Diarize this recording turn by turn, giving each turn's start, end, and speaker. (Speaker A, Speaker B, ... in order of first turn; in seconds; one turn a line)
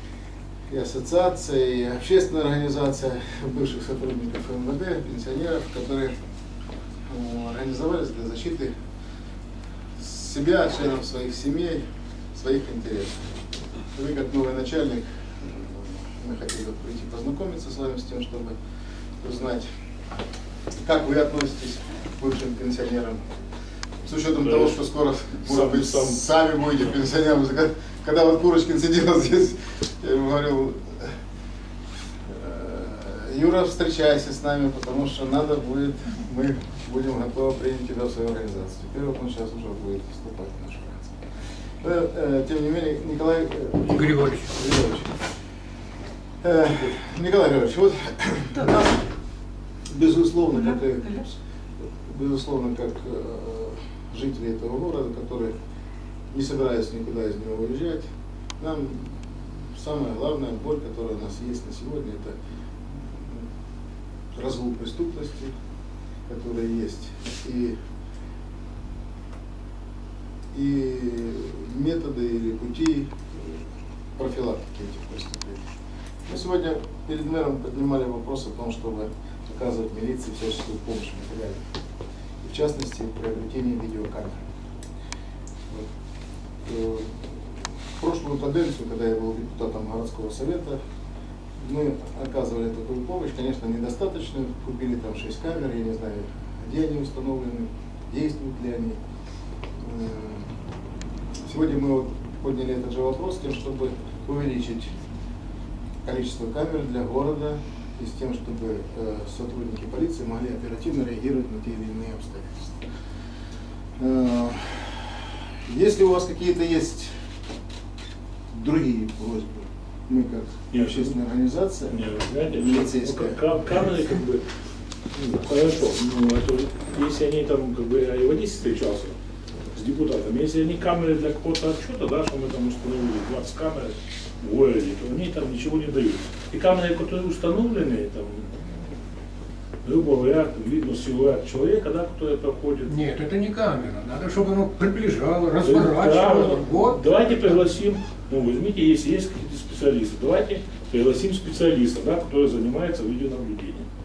Speaker A: 0.7-6.1
Speaker A: 7.1-8.7
Speaker A: 9.9-11.8
Speaker A: 12.3-13.3
Speaker A: 13.9-18.6
Speaker A: 19.2-19.6
Speaker A: 20.8-23.2
Speaker A: 24.1-31.1
Speaker B: 24.4-24.8
Speaker B: 25.4-26.2
Speaker A: 32.3-41.2
Speaker A: 41.8-45.1
Speaker C: 43.9-44.5
Speaker A: 46.4-49.0
Speaker A: 49.9-51.3
Speaker A: 52.0-55.5
Speaker A: 56.3-58.0
Speaker A: 58.6-62.4
Speaker A: 63.0-63.5
Speaker A: 64.3-65.5
Speaker A: 66.3-67.7
Speaker A: 70.5-73.6
Speaker A: 74.2-75.7
Speaker A: 76.3-81.6
Speaker A: 82.4-84.4
Speaker A: 86.6-87.2
Speaker A: 88.0-90.8
Speaker A: 91.6-99.0
Speaker A: 99.8-100.5
Speaker A: 101.4-104.9
Speaker A: 106.0-112.8
Speaker A: 114.0-117.1
Speaker A: 118.5-123.4
Speaker B: 120.7-121.2
Speaker B: 121.9-124.4
Speaker B: 125.2-129.1
Speaker B: 129.7-138.8
Speaker B: 139.8-142.9
Speaker C: 142.9-147.6
Speaker B: 145.6-153.9